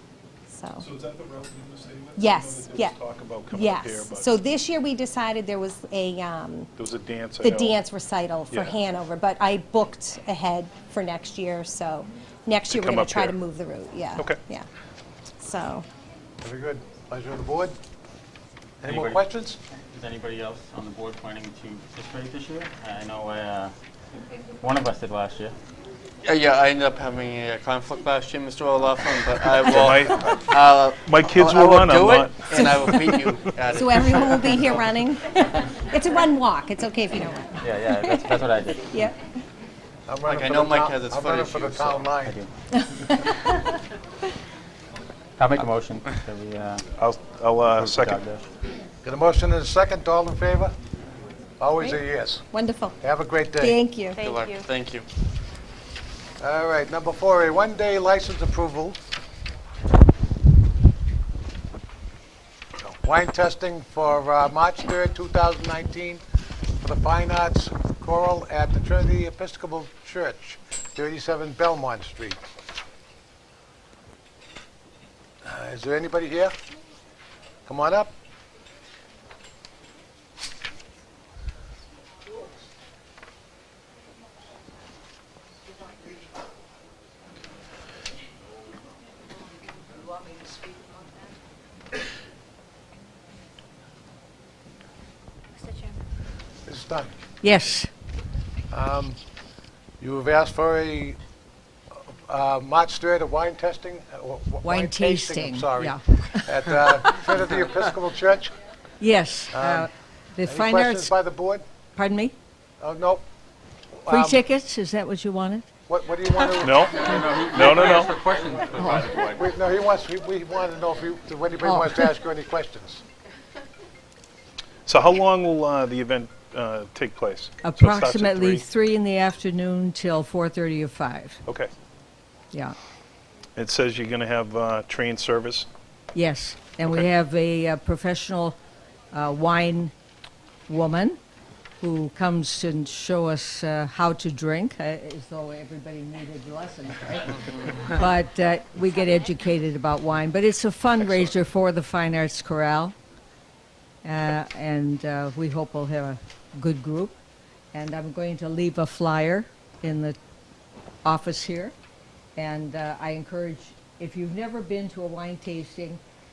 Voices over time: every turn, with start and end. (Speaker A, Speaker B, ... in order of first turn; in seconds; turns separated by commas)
Speaker A: 0.5-0.8, Speaker B: 0.8-4.3, Speaker A: 2.2-3.0, Speaker A: 3.5-6.7, Speaker B: 6.8-7.8, Speaker A: 7.4-14.7, Speaker B: 8.5-8.8, Speaker B: 12.7-13.3, Speaker A: 15.4-15.8, Speaker C: 16.4-17.8, Speaker C: 18.8-19.6, Speaker D: 18.9-23.7, Speaker D: 24.6-25.6, Speaker E: 26.2-34.8, Speaker B: 29.5-34.3, Speaker A: 32.6-32.9, Speaker A: 33.7-38.2, Speaker D: 37.6-38.9, Speaker A: 38.8-39.2, Speaker C: 40.1-42.4, Speaker E: 40.2-42.2, Speaker D: 42.2-42.5, Speaker A: 43.0-43.7, Speaker D: 45.4-46.8, Speaker B: 47.0-48.2, Speaker D: 47.8-48.5, Speaker C: 49.0-50.8, Speaker C: 51.6-52.5, Speaker A: 51.8-53.0, Speaker C: 53.0-53.8, Speaker A: 53.6-54.3, Speaker E: 54.2-55.1, Speaker C: 56.4-59.0, Speaker C: 62.8-66.2, Speaker C: 66.8-72.4, Speaker C: 75.5-76.5, Speaker C: 77.7-78.1, Speaker C: 96.7-97.2, Speaker F: 97.4-97.9, Speaker C: 98.7-99.2, Speaker C: 100.0-101.2, Speaker C: 101.9-108.5, Speaker F: 104.6-106.8, Speaker F: 109.0-111.1, Speaker C: 109.5-109.9, Speaker C: 110.5-111.7, Speaker F: 112.0-112.3, Speaker C: 112.8-113.2, Speaker C: 114.0-114.4, Speaker F: 114.1-115.7, Speaker C: 115.9-117.2, Speaker B: 116.6-118.1, Speaker D: 116.7-119.5, Speaker C: 119.3-123.0, Speaker F: 121.6-122.1, Speaker B: 124.9-128.6, Speaker F: 127.6-131.4, Speaker B: 133.6-135.7, Speaker F: 136.1-138.6, Speaker F: 139.1-139.9, Speaker F: 140.7-141.2, Speaker F: 141.8-152.9, Speaker F: 154.0-157.2, Speaker F: 157.7-160.2, Speaker F: 161.0-161.8, Speaker F: 162.4-166.0